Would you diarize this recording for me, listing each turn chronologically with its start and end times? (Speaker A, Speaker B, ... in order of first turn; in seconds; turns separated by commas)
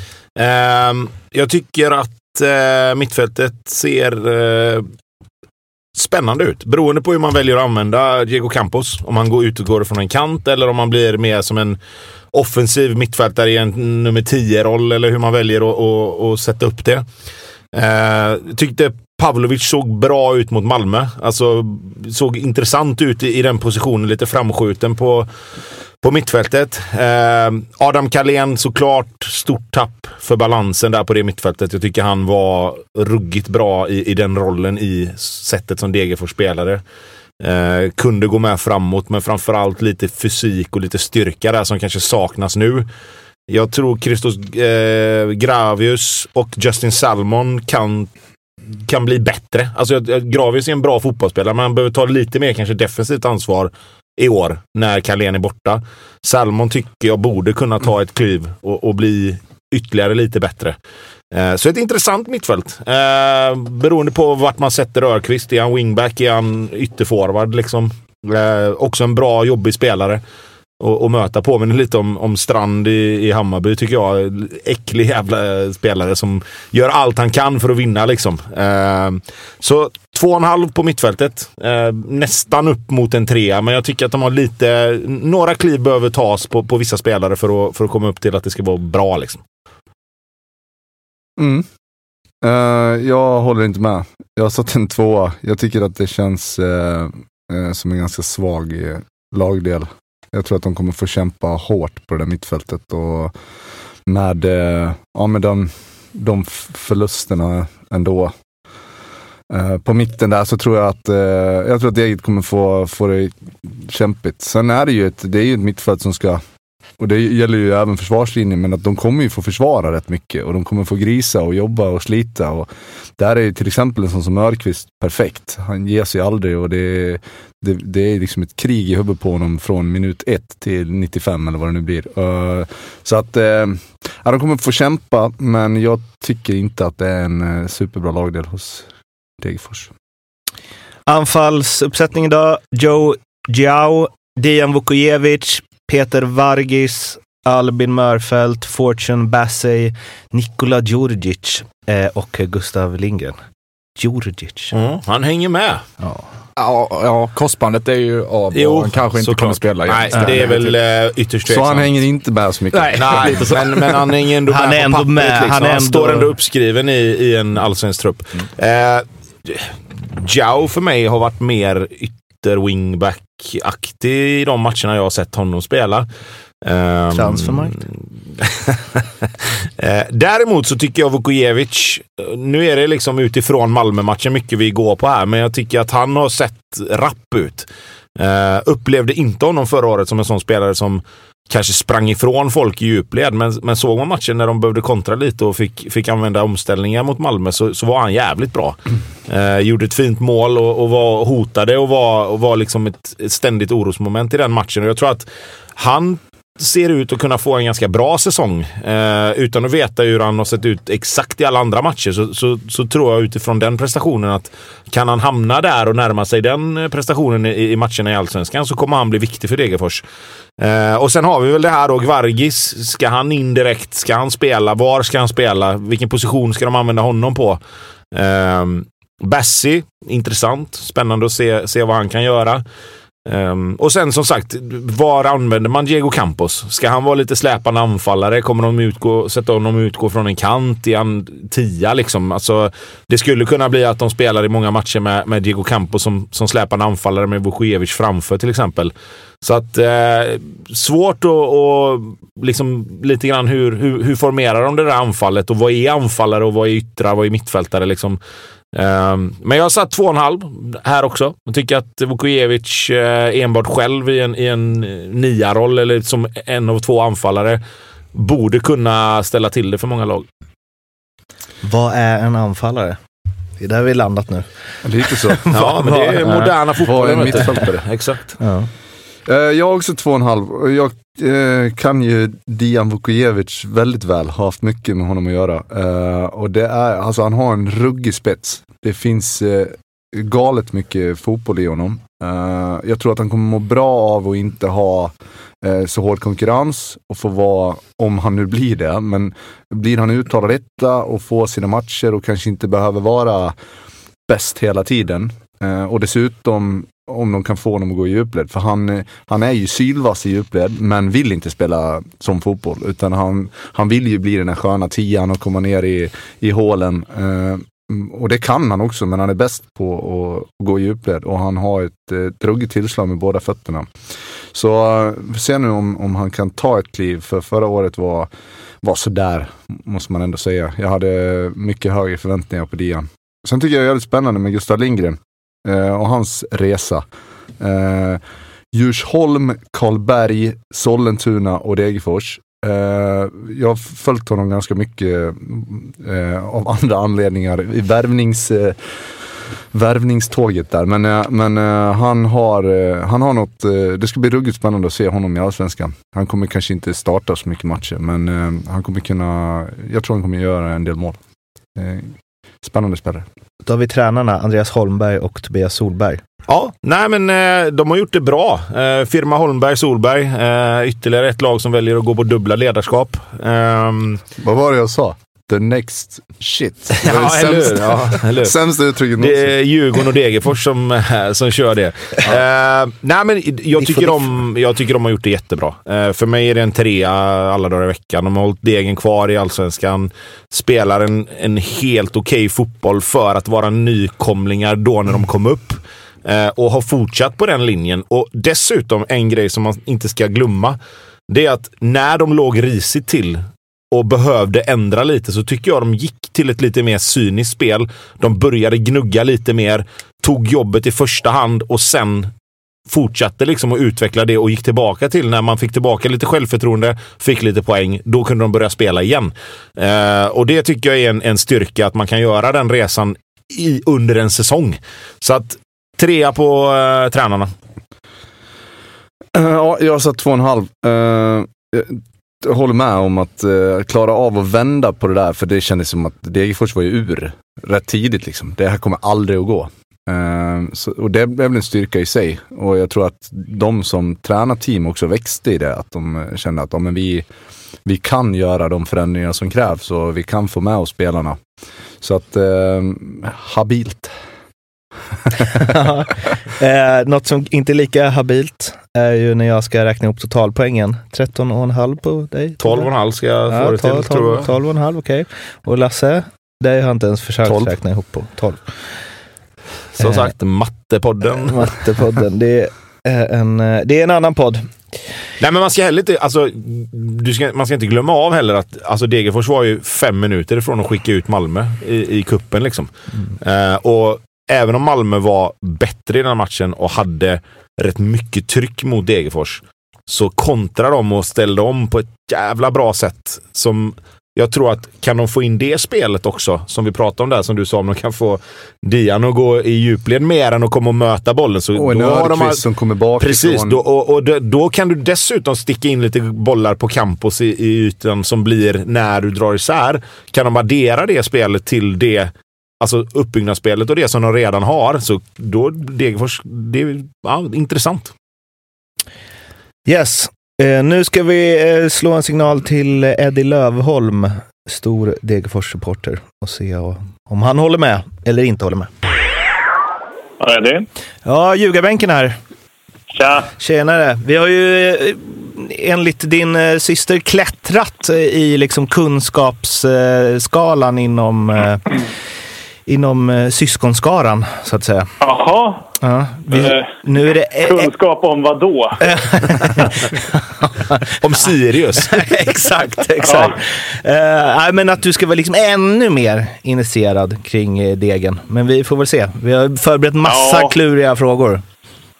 Speaker A: 0.4-4.9, Speaker A: 5.9-11.8, Speaker A: 12.3-17.0, Speaker A: 17.7-25.3, Speaker A: 26.0-36.8, Speaker A: 37.4-42.9, Speaker A: 43.5-48.1, Speaker A: 48.8-60.8, Speaker A: 61.3-70.2, Speaker A: 70.8-89.4, Speaker B: 91.4-91.7, Speaker B: 92.4-103.3, Speaker B: 104.0-108.3, Speaker B: 109.5-116.4, Speaker B: 117.0-138.9, Speaker B: 139.4-139.9, Speaker C: 141.1-153.4, Speaker C: 154.0-154.7, Speaker A: 154.7-155.8, Speaker C: 156.0-156.2, Speaker D: 156.6-160.8, Speaker A: 158.5-161.9, Speaker B: 161.5-163.4, Speaker D: 162.7-164.1, Speaker A: 162.9-176.1, Speaker C: 164.5-166.3, Speaker A: 176.6-179.1, Speaker C: 177.1-177.8, Speaker A: 179.8-220.0, Speaker A: 220.6-227.6, Speaker A: 228.1-232.6, Speaker A: 233.2-258.2, Speaker A: 258.7-267.6, Speaker A: 268.1-270.2, Speaker C: 271.6-273.0, Speaker C: 273.6-274.5, Speaker B: 274.8-275.4, Speaker C: 275.1-276.6, Speaker A: 275.5-278.4, Speaker B: 276.8-277.8, Speaker C: 277.2-277.5, Speaker C: 278.4-278.7, Speaker B: 279.3-303.5, Speaker B: 304.3-323.9, Speaker B: 324.5-328.3, Speaker B: 328.8-337.0, Speaker B: 337.6-338.2, Speaker B: 338.7-348.9, Speaker B: 349.7-361.2, Speaker B: 361.8-363.2, Speaker C: 363.6-366.2, Speaker A: 366.5-374.2, Speaker B: 374.4-379.5, Speaker A: 377.0-378.5, Speaker A: 379.2-400.8, Speaker A: 401.3-412.3, Speaker A: 412.9-427.5, Speaker B: 429.3-447.3, Speaker B: 447.9-451.4, Speaker B: 452.0-454.1, Speaker C: 455.6-462.9, Speaker A: 462.6-464.5, Speaker C: 463.5-468.6, Speaker A: 467.5-467.7, Speaker A: 470.0-471.7, Speaker C: 470.0-470.3, Speaker C: 471.4-474.7, Speaker A: 475.4-502.6, Speaker B: 501.8-503.8, Speaker A: 503.2-518.1, Speaker C: 519.9-528.9, Speaker E: 530.4-530.9, Speaker C: 531.2-532.4, Speaker E: 533.1-533.5, Speaker C: 533.6-541.9, Speaker C: 542.9-545.1, Speaker E: 545.2-545.9, Speaker C: 546.0-547.9, Speaker E: 546.5-546.9, Speaker E: 547.6-549.2, Speaker C: 549.0-551.0, Speaker A: 551.2-552.2, Speaker C: 552.0-561.6, Speaker E: 553.2-553.6, Speaker E: 560.2-560.7